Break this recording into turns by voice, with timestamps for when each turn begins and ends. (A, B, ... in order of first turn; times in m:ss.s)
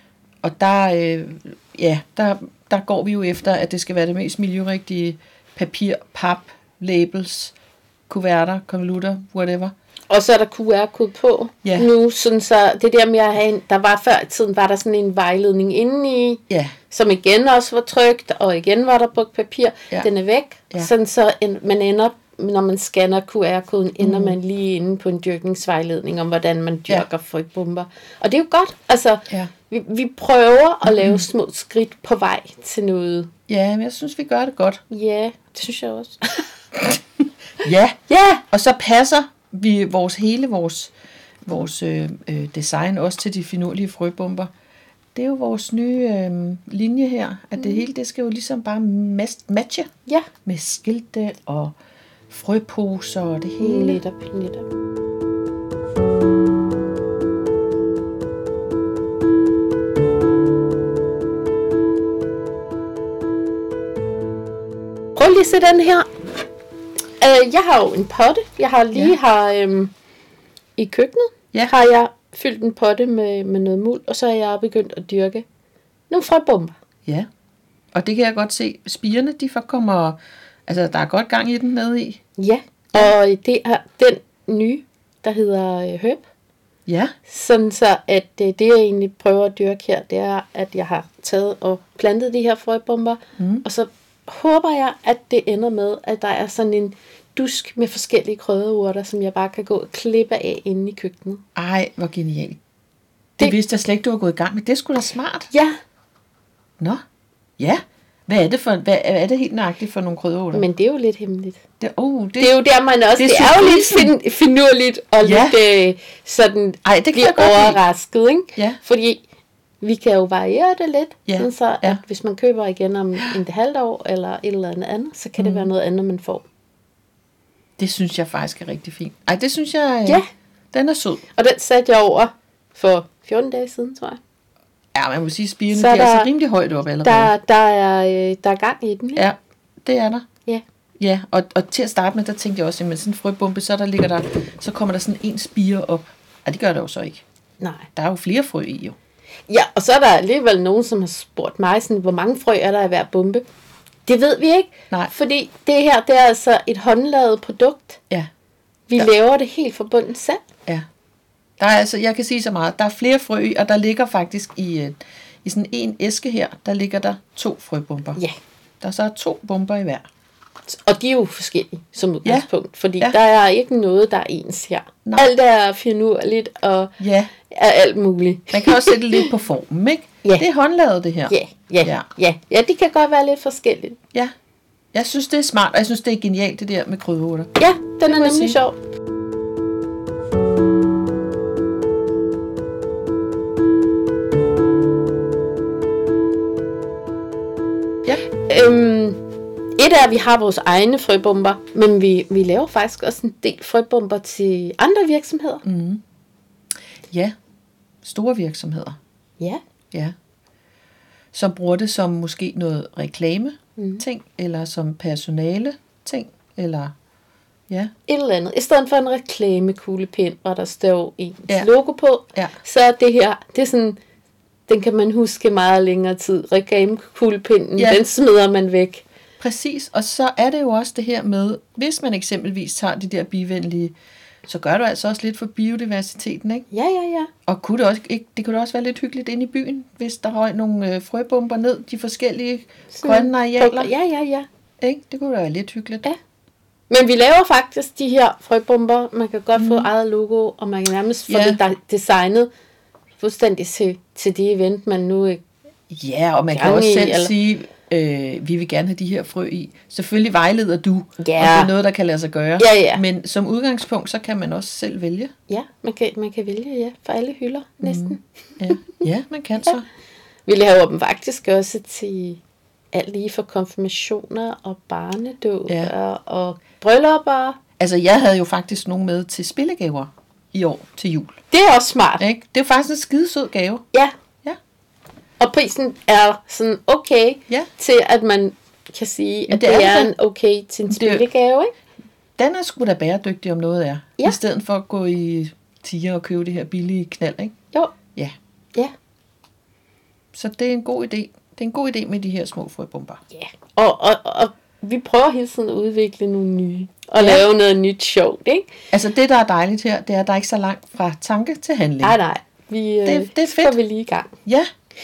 0:00.4-0:07.5 A
0:08.1-0:09.7 A
0:10.1-0:33.3 B
0:11.6-0:11.9 A
0:16.5-0:16.8 A
0:24.0-0:24.3 A
0:30.9-0:31.2 A
0:33.5-0:34.8 A
0:34.9-0:36.4 B
0:37.6-0:38.0 A
0:38.1-0:38.4 B
0:38.5-0:40.9 A
0:41.4-0:44.5 A
0:45.1-0:49.9 A
0:50.4-0:51.7 A
0:52.3-0:54.0 A
0:53.6-0:54.6 B
1:05.2-1:06.1 B
1:07.2-1:09.9 B
1:10.8-1:15.4 B
1:16.1-1:16.8 B
1:17.9-1:22.2 A
1:22.4-1:26.2 B
1:26.9-1:27.1 A
1:27.3-1:41.4 B
1:33.4-1:33.6 A
1:41.6-1:42.6 A
1:43.4-1:45.5 A
1:47.6-1:50.7 A
1:50.5-1:51.6 B
1:51.8-1:52.5 A
1:52.4-1:59.2 B
1:53.2-1:54.1 A
1:55.2-1:55.6 A
1:56.8-1:57.8 A
1:59.8-2:06.4 B
2:01.3-2:02.0 A
2:05.4-2:05.7 A
2:07.8-2:11.2 A
2:11.3-2:14.2 B
2:14.9-2:17.3 A
2:15.7-2:16.3 B
2:17.0-2:19.2 B
2:19.2-2:20.2 A
2:21.0-2:27.2 A
2:27.6-2:27.9 B
2:28.0-2:29.0 A
2:29.5-2:33.4 B
2:34.0-2:38.0 B
2:38.9-2:40.4 B
2:41.6-2:48.2 A
2:48.8-2:50.1 A
2:50.7-2:56.9 B
2:55.0-2:55.3 A
2:57.0-2:57.3 A
2:57.5-2:59.3 B
2:58.5-3:02.0 A
3:01.3-3:04.0 B
3:04.9-3:07.5 A
3:07.6-3:08.8 B
3:08.0-3:08.6 A
3:18.4-3:19.2 B
3:19.8-3:25.6 B
3:25.6-3:26.0 A
3:27.1-3:27.3 A
3:28.0-3:29.0 A
3:31.3-3:36.9 A
3:33.8-3:34.0 B
3:38.1-3:44.0 B
3:44.7-3:49.0 B
3:47.8-3:48.0 A
3:49.4-3:53.9 A
3:54.4-3:56.7 A
3:56.7-3:57.3 B
3:57.5-4:03.9 A
4:02.9-4:04.5 B
4:04.8-4:06.1 A
4:06.9-4:12.5 B
4:09.6-4:09.9 A
4:11.3-4:11.6 A
4:13.2-4:15.4 B
4:15.9-4:25.3 A
4:16.5-4:17.3 B
4:21.2-4:21.7 B
4:22.6-4:23.0 B
4:25.5-4:29.0 B
4:27.8-4:29.8 A
4:30.5-4:32.4 B
4:32.9-4:37.6 B
4:37.8-4:41.4 A
4:41.5-4:42.2 B
4:42.2-4:43.8 A
4:45.4-4:51.7 B
4:49.5-4:50.1 A
4:50.9-4:51.2 A
4:52.4-4:57.5 A
5:00.3-5:03.2 A
5:03.3-5:08.7 B
5:07.2-5:07.5 A
5:08.9-5:12.2 A
5:12.0-5:14.3 B
5:13.0-5:13.8 A